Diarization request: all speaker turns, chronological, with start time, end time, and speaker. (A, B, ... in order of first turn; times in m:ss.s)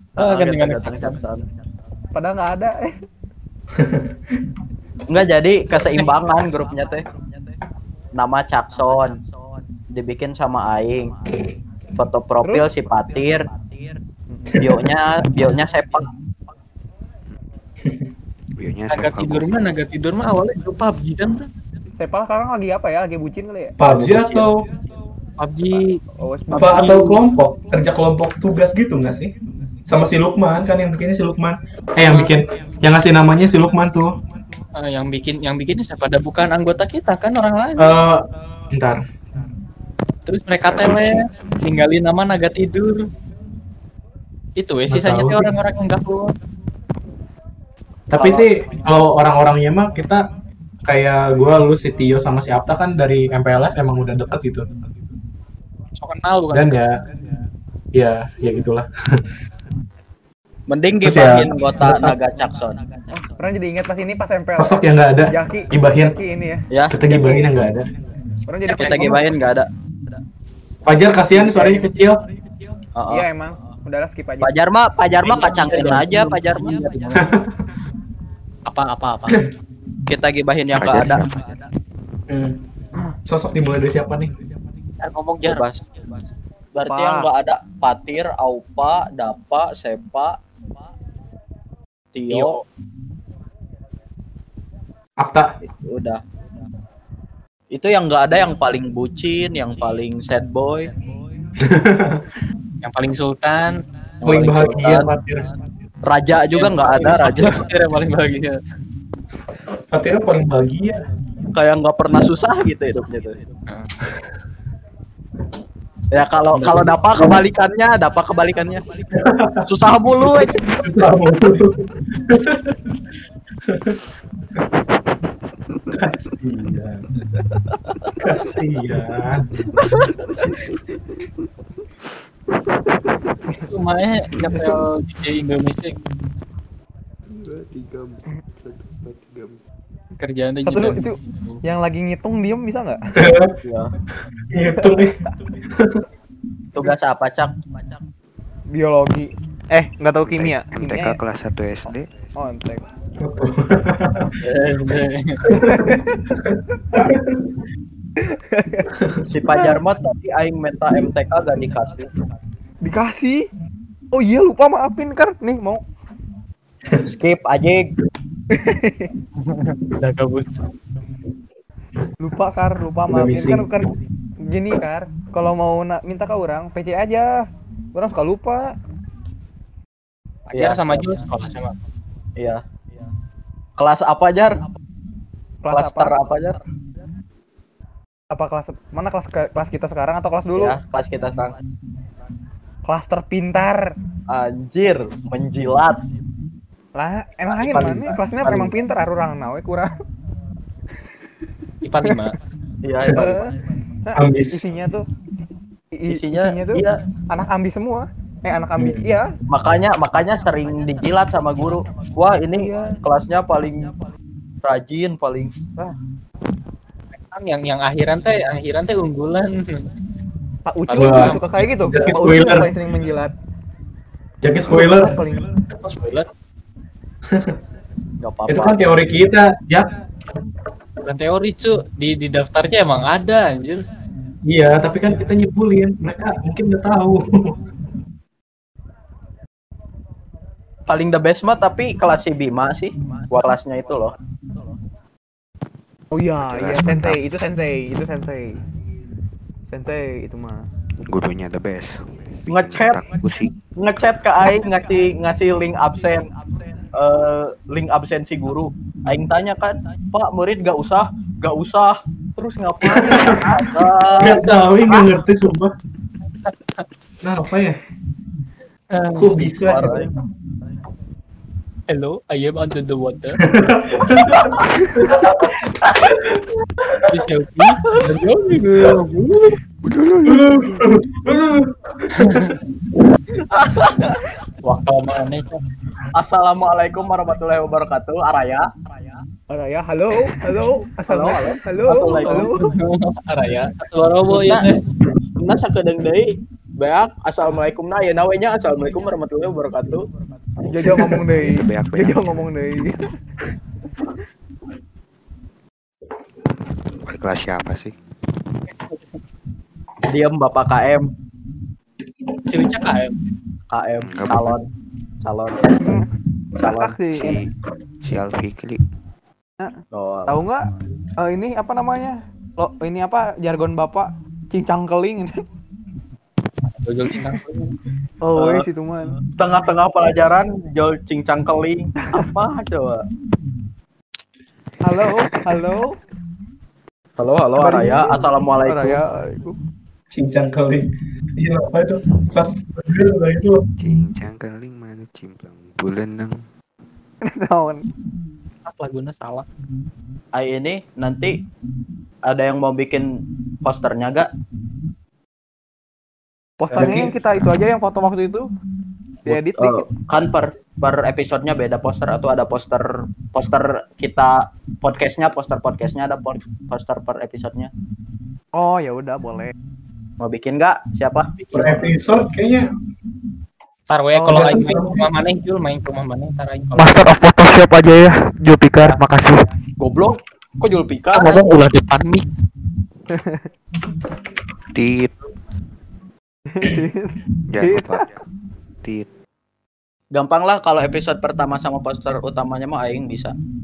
0:00.2-0:01.4 A
0:00.2-0:01.2 B
0:02.1-0:02.9 C
0:03.8-0:04.1 D
0:05.1-0:07.1 A
0:08.1-0:09.2 A
0:09.9-0:11.2 A
0:12.0-0:13.5 A
0:12.4-0:12.7 C
0:14.3-0:14.6 C
0:14.5-0:14.9 D
0:14.6-0:16.1 A
0:18.6-0:19.8 E
0:18.9-0:21.5 B
0:22.0-0:24.4 C
0:23.8-0:24.7 D
0:25.4-0:26.0 B
0:25.8-0:27.2 C
0:26.5-0:29.4 D
0:26.6-0:26.8 B
0:29.9-0:34.2 D
0:32.0-0:32.4 B
0:34.8-0:38.0 B
0:37.8-0:39.0 D
0:40.3-0:43.0 B
0:40.6-0:41.7 E
0:44.6-0:46.3 B
0:44.9-0:45.5 D
0:48.1-0:50.2 D
0:50.8-0:54.7 D
0:56.0-0:56.8 B
0:56.5-0:57.0 D
0:57.9-0:59.2 D
1:00.7-1:02.8 A
1:01.0-1:02.2 D
1:03.1-1:07.4 C
1:04.6-1:06.2 D
1:06.7-1:07.0 A
1:06.9-1:07.9 D
1:08.5-1:09.3 C
1:08.7-1:09.2 B
1:08.7-1:09.7 A
1:10.8-1:12.2 D
1:13.0-1:13.3 A
1:13.1-1:14.5 C
1:14.4-1:16.9 A
1:15.2-1:17.3 B
1:17.1-1:17.5 D
1:18.7-1:19.4 B
1:20.1-1:21.3 A
1:20.7-1:21.3 E
1:22.3-1:22.6 D
1:23.3-1:24.3 D
1:25.0-1:25.7 B
1:25.4-1:25.8 A
1:26.7-1:30.4 A
1:26.9-1:27.3 C
1:32.2-1:32.6 A
1:32.3-1:32.6 B
1:35.2-1:35.5 D
1:35.7-1:36.2 A
1:37.7-1:41.0 A
1:41.6-1:42.2 D
1:42.8-1:43.8 B
1:44.2-1:45.1 A
1:44.2-1:45.5 D
1:46.0-1:47.6 A
1:46.5-1:48.6 B
1:49.9-1:51.0 D
1:51.5-1:53.4 A
1:56.1-1:58.9 A
1:56.6-1:57.3 D
1:59.1-1:59.6 D
1:59.6-2:00.8 A
2:00.6-2:02.7 D
2:03.7-2:04.0 D
2:05.9-2:07.1 D
2:08.2-2:09.5 D
2:10.0-2:10.7 E
2:12.7-2:13.2 E
2:13.7-2:16.0 B
2:14.5-2:14.8 C
2:17.3-2:19.6 E
2:20.2-2:21.6 B
2:20.7-2:23.0 C
2:23.2-2:23.6 D
2:23.6-2:23.9 A
2:24.5-2:25.2 D
2:24.8-2:25.1 C
2:25.7-2:26.0 D
2:26.7-2:27.6 A
2:28.7-2:31.2 C
2:30.2-2:32.1 E
2:32.4-2:32.8 C
2:33.2-2:34.4 D
2:34.4-2:35.6 B
2:35.5-2:37.6 D
2:35.5-2:36.3 C
2:38.3-2:38.9 C
2:39.3-2:42.1 A
2:42.8-2:43.4 C
2:44.1-2:45.8 C
2:47.0-2:47.9 A
2:48.5-2:49.1 C
2:49.4-2:50.6 B
2:52.2-2:54.0 C
2:53.1-2:53.9 D
2:54.5-2:57.4 C
2:57.9-2:58.8 C
3:00.5-3:01.1 A
3:00.6-3:01.8 B
3:03.8-3:04.6 A
3:05.6-3:06.2 C
3:05.7-3:06.6 A
3:08.3-3:10.8 C
3:10.6-3:11.6 A
3:12.9-3:14.0 C
3:14.3-3:16.0 A
3:17.0-3:19.9 C
3:17.6-3:18.7 A
3:21.8-3:22.4 B
3:22.8-3:23.4 A
3:23.0-3:23.4 D
3:23.1-3:23.6 C
3:24.1-3:25.1 C
3:24.2-3:24.6 D
3:26.0-3:29.3 C
3:26.1-3:27.0 A
3:28.8-3:29.1 D
3:29.5-3:33.9 A
3:32.6-3:33.0 C
3:34.6-3:35.6 A
3:37.2-3:39.9 B
3:40.7-3:43.3 C
3:40.9-3:41.6 B
3:41.0-3:42.7 D
3:44.4-3:45.2 D
3:44.6-3:45.5 C
3:45.7-3:46.3 B
3:47.3-3:47.6 D
3:48.2-3:48.8 A
3:48.5-3:49.9 D
3:51.0-3:53.8 B
3:54.5-3:57.6 D
4:00.9-4:04.2 A
4:06.1-4:08.6 C
4:06.4-4:07.2 E
4:09.7-4:10.7 C
4:11.1-4:13.6 E
4:12.5-4:13.0 A
4:13.8-4:16.3 A
4:16.9-4:24.5 A
4:22.8-4:25.7 D
4:27.2-4:27.8 D
4:28.9-4:29.4 B
4:29.1-4:30.1 D
4:29.4-4:30.1 A
4:31.9-4:33.4 B
4:33.4-4:35.5 D
4:36.9-4:37.1 D
4:37.1-4:39.6 B
4:39.8-4:40.9 E
4:40.3-4:42.6 D
4:42.2-4:42.6 B
4:43.6-4:44.1 A
4:44.6-4:45.6 B
4:46.1-4:48.7 A
4:49.5-4:52.7 C
4:51.1-4:52.5 A
4:52.5-4:54.8 B
4:54.2-4:54.7 A
4:55.4-5:00.0 A
5:00.7-5:03.1 C
5:01.3-5:02.3 E
5:07.0-5:08.0 E
5:08.7-5:09.2 B
5:10.1-5:11.1 A
5:12.5-5:13.2 B
5:13.7-5:14.6 A
5:14.0-5:14.6 E
5:15.2-5:16.0 A
5:15.8-5:16.1 C
5:16.6-5:17.0 A
5:16.6-5:17.4 C
5:17.2-5:17.5 E
5:18.0-5:18.8 E
5:19.6-5:25.4 C
5:19.9-5:20.4 A
5:26.8-5:27.8 B
5:28.2-5:29.2 C
5:28.4-5:28.7 A
5:29.4-5:33.0 A
5:34.8-5:36.0 C
5:35.1-5:35.6 E
5:37.2-5:39.0 A
5:37.6-5:39.6 C
5:40.1-5:43.6 D
5:43.8-5:46.4 E
5:47.3-5:47.8 C
5:48.6-5:49.5 B
5:50.4-5:51.3 A
5:52.3-5:53.1 A
5:53.6-5:54.3 A
5:56.6-5:58.5 C
5:56.7-5:57.2 D
5:59.3-5:59.9 C
5:59.3-6:07.7 A
6:08.6-6:09.5 C
6:10.2-6:11.3 A
6:11.5-6:11.9 B
6:11.5-6:12.7 D
6:13.9-6:17.0 B
6:14.2-6:14.8 C
6:14.3-6:15.1 D
6:16.8-6:19.5 C
6:19.8-6:21.4 A
6:21.1-6:22.3 B
6:23.1-6:23.5 C
6:24.7-6:25.1 E
6:26.5-6:28.1 C
6:27.5-6:28.2 E
6:28.8-6:29.1 E
6:30.1-6:33.3 A